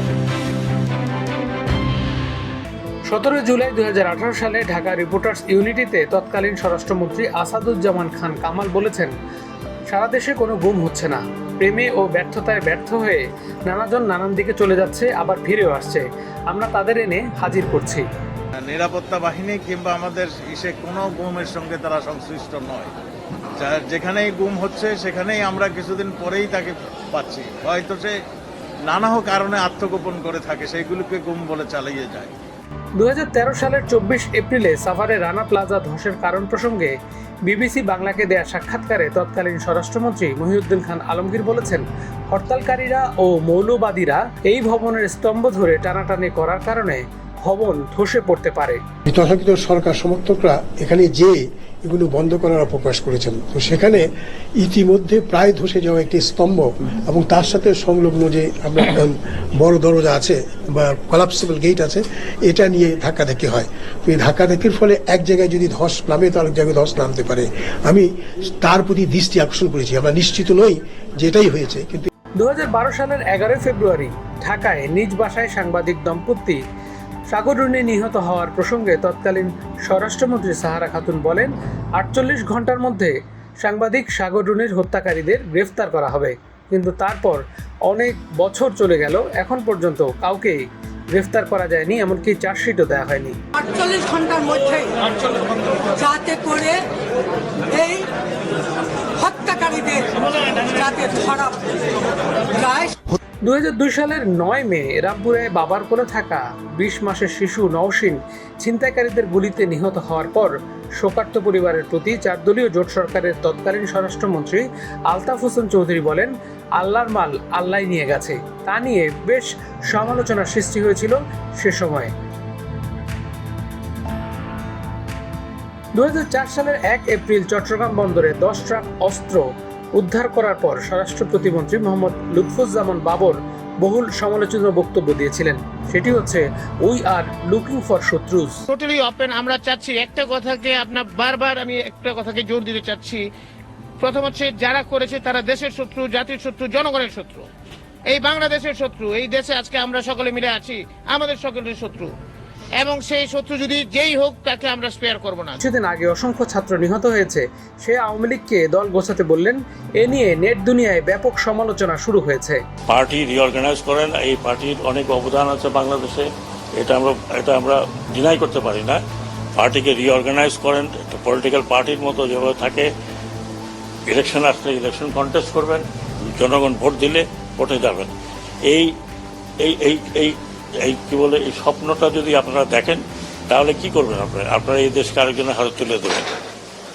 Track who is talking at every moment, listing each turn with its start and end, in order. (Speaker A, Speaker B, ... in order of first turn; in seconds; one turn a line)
Speaker A: 3.1-9.1
Speaker A: 9.9-18.1
Speaker B: 18.6-22.9
Speaker B: 23.6-28.1
Speaker B: 28.8-32.3
Speaker A: 33.0-36.9
Speaker A: 37.5-48.8
Speaker C: 49.1-72.1
Speaker A: 72.4-76.6
Speaker A: 77.3-93.4
Speaker D: 93.5-96.9
Speaker D: 97.7-98.1
Speaker D: 99.2-101.8
Speaker D: 102.5-103.1
Speaker A: 103.4-122.1
Speaker A: 125.9-129.4
Speaker A: 129.9-138.6
Speaker E: 138.7-143.2
Speaker E: 144.0-147.4
Speaker E: 148.1-152.1
Speaker E: 152.8-155.6
Speaker A: 155.6-162.6
Speaker F: 162.9-169.0
Speaker F: 169.6-172.9
Speaker F: 174.1-178.1
Speaker F: 179.6-186.3